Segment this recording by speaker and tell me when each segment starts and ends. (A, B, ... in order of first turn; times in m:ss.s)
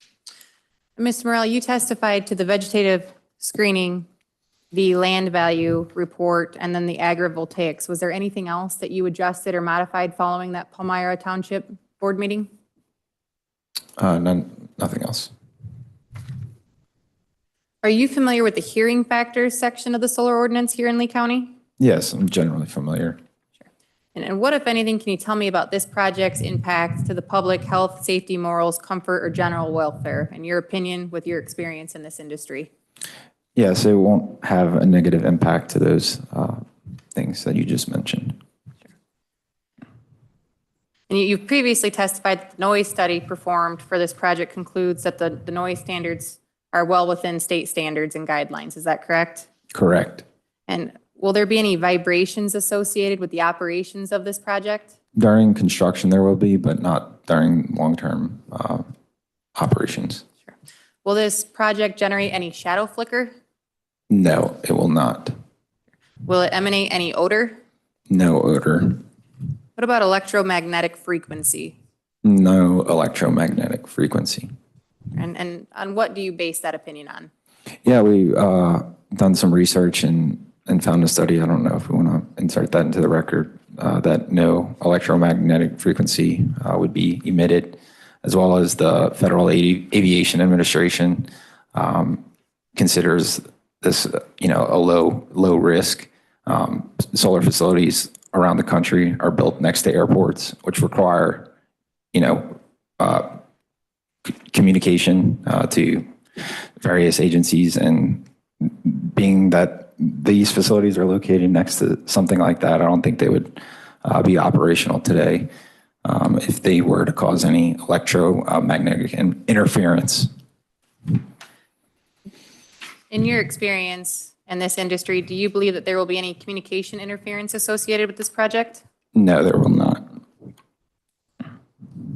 0:01.0-0:04.1 A
0:04.7-0:12.5 A
0:14.0-0:15.3 B
0:17.8-0:21.5 A
0:21.8-0:23.2 B
0:24.1-0:32.7 A
0:33.6-0:38.4 B
0:41.1-0:49.5 A
0:49.7-0:50.2 B
0:50.7-0:54.9 A
0:55.2-0:58.9 B
0:59.6-1:00.2 B
1:01.0-1:03.3 A
1:04.1-1:05.3 B
1:06.2-1:07.6 A
1:08.1-1:09.0 B
1:09.8-1:11.8 A
1:12.2-1:14.5 B
1:15.1-1:17.3 A
1:17.8-1:32.2 B
1:32.8-1:41.5 B
1:42.1-1:43.4 B
1:44.2-1:55.5 B
1:56.0-2:00.3 B
2:03.1-2:08.8 A
2:09.1-2:10.0 B